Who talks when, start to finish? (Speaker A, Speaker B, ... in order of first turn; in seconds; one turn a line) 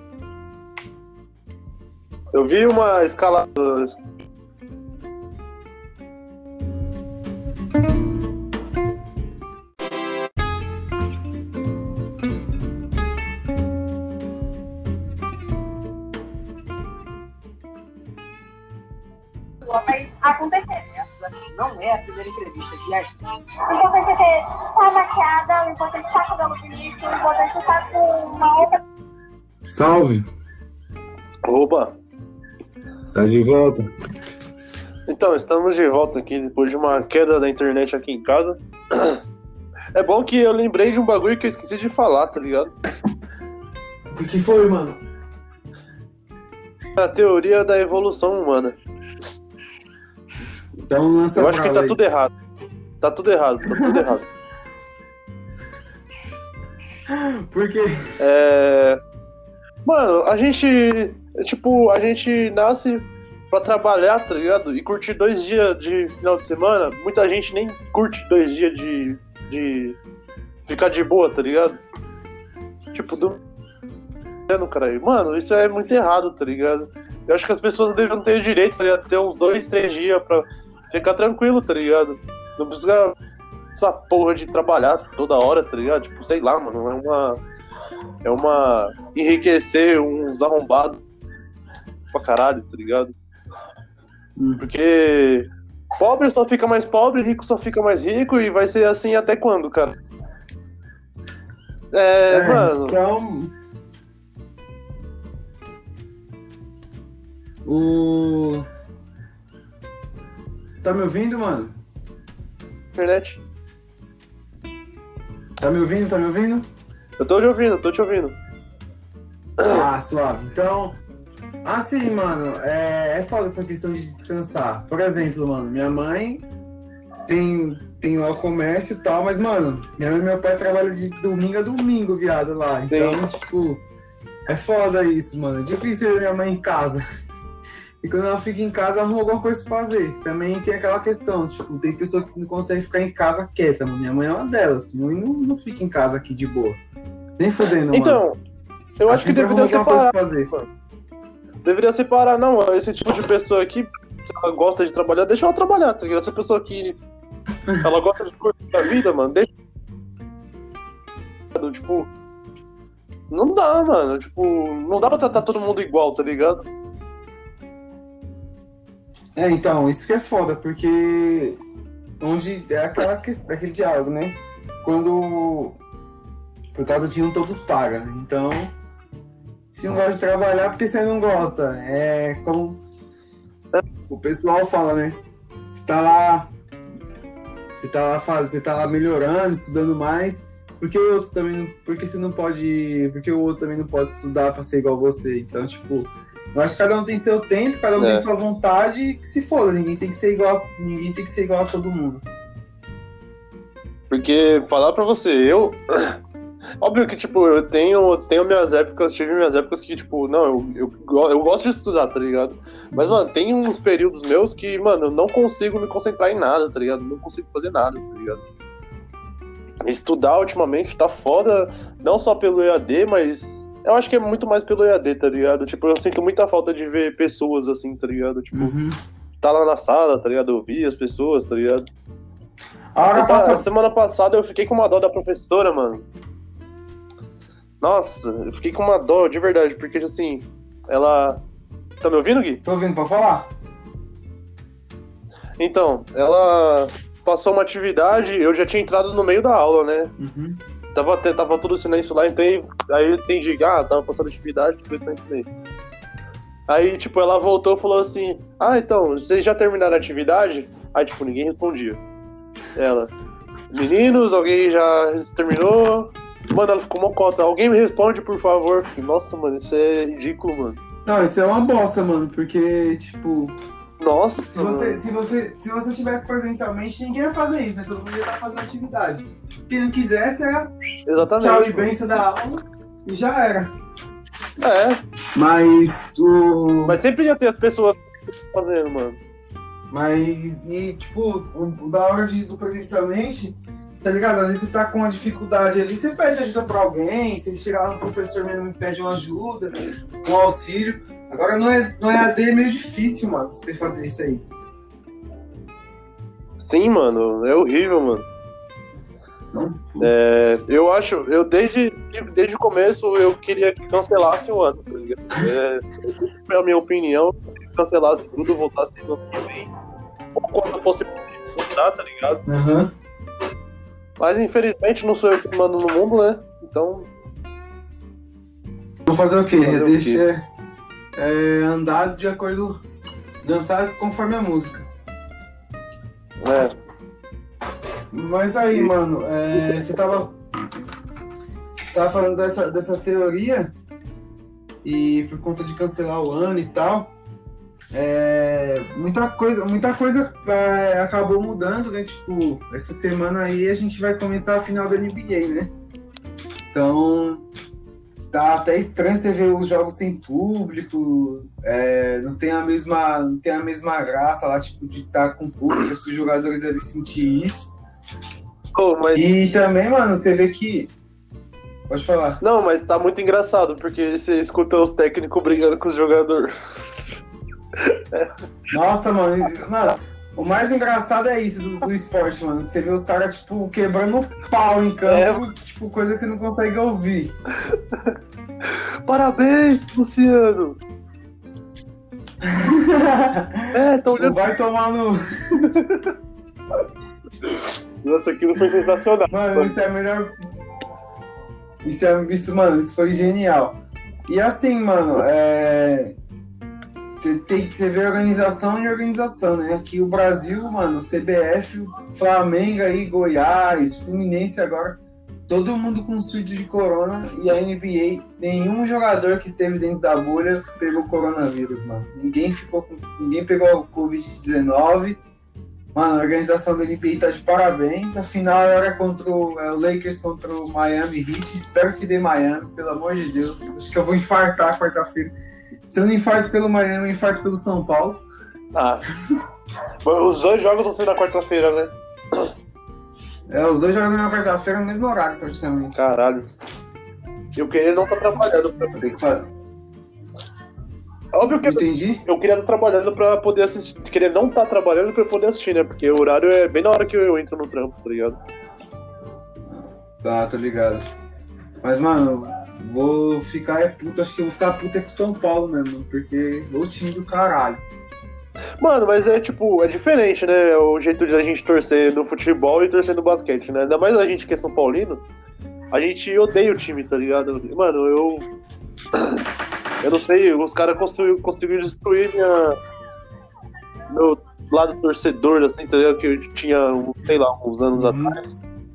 Speaker A: 2.3-4.2
Speaker B: 19.6-23.1
Speaker B: 23.6-28.8
Speaker C: 29.6-30.3
Speaker A: 31.5-31.9
Speaker C: 33.1-33.9
Speaker A: 35.1-39.2
Speaker A: 39.9-42.7
Speaker C: 44.1-45.0
Speaker A: 47.0-48.8
Speaker C: 50.9-52.0
Speaker A: 51.4-52.3
Speaker A: 53.0-54.2
Speaker C: 53.6-54.1
Speaker C: 57.1-58.1
Speaker A: 58.2-59.0
Speaker A: 59.8-70.0
Speaker A: 70.7-71.8
Speaker A: 72.9-73.4
Speaker A: 74.5-83.2
Speaker A: 83.7-87.4
Speaker A: 88.2-91.0
Speaker A: 92.1-93.1
Speaker C: 94.3-94.6
Speaker A: 94.6-100.0
Speaker A: 101.9-103.0
Speaker C: 102.3-103.5
Speaker C: 107.6-108.7
Speaker C: 110.8-111.8
Speaker A: 112.9-113.4
Speaker C: 115.6-116.6
Speaker A: 117.2-118.3
Speaker C: 119.7-121.0
Speaker C: 121.6-126.4
Speaker C: 127.2-133.8
Speaker A: 132.9-133.2
Speaker C: 134.5-137.0
Speaker C: 138.0-146.8
Speaker C: 147.4-148.2
Speaker A: 147.9-148.4
Speaker A: 149.0-150.7
Speaker C: 149.1-150.5
Speaker A: 151.6-157.0
Speaker A: 157.8-159.5
Speaker A: 161.6-162.1
Speaker A: 163.3-166.7
Speaker C: 169.3-171.6
Speaker C: 172.2-175.8
Speaker C: 176.7-178.7
Speaker C: 179.7-182.8
Speaker C: 184.1-185.2
Speaker C: 185.7-186.5
Speaker C: 187.8-202.2
Speaker A: 198.0-198.3
Speaker A: 204.1-206.2
Speaker A: 206.8-218.4
Speaker C: 212.9-213.2
Speaker A: 219.8-228.7
Speaker C: 228.5-228.9
Speaker A: 229.4-231.8
Speaker C: 232.9-233.6
Speaker A: 233.1-236.1
Speaker A: 237.8-241.4
Speaker A: 242.0-242.6
Speaker C: 242.6-243.5
Speaker A: 245.6-250.1
Speaker C: 250.2-250.6
Speaker A: 250.9-255.5
Speaker A: 256.7-262.0
Speaker A: 262.7-263.1
Speaker A: 263.7-270.8
Speaker C: 271.1-273.6
Speaker A: 274.0-275.0
Speaker C: 274.5-280.7
Speaker A: 281.1-281.9
Speaker C: 281.4-283.7
Speaker A: 284.6-285.0
Speaker C: 285.3-287.0
Speaker A: 286.9-289.2
Speaker C: 289.9-304.4
Speaker A: 306.6-308.2
Speaker C: 309.5-310.1
Speaker A: 310.0-319.7
Speaker A: 320.3-322.4
Speaker C: 322.4-322.9
Speaker A: 324.2-327.1
Speaker C: 329.1-330.4
Speaker A: 329.6-330.2
Speaker C: 331.1-332.8
Speaker C: 333.4-334.9
Speaker A: 336.4-336.7
Speaker C: 338.1-340.4
Speaker C: 341.9-343.7
Speaker C: 344.8-347.1
Speaker C: 347.9-355.7
Speaker C: 356.7-357.4
Speaker C: 358.3-367.7
Speaker A: 368.8-369.3
Speaker C: 369.1-370.9
Speaker C: 371.9-372.4
Speaker A: 372.4-377.1
Speaker A: 377.8-378.3
Speaker C: 378.7-387.3
Speaker A: 385.1-385.4
Speaker A: 387.7-390.8
Speaker C: 392.4-395.6
Speaker A: 393.7-394.4
Speaker A: 395.5-396.1
Speaker A: 397.4-399.8
Speaker C: 399.3-400.4
Speaker C: 401.8-406.1
Speaker C: 407.2-425.2
Speaker C: 425.9-435.3
Speaker C: 435.9-438.2
Speaker A: 438.7-439.1
Speaker A: 440.0-442.5
Speaker C: 443.5-446.0
Speaker A: 445.9-446.5
Speaker A: 447.6-449.0
Speaker C: 448.9-449.5
Speaker A: 451.3-458.4
Speaker C: 451.5-452.2
Speaker C: 459.7-461.0
Speaker C: 461.8-467.8
Speaker A: 468.8-475.2
Speaker A: 475.9-478.5
Speaker A: 480.0-482.8
Speaker A: 484.1-488.6
Speaker C: 487.9-488.4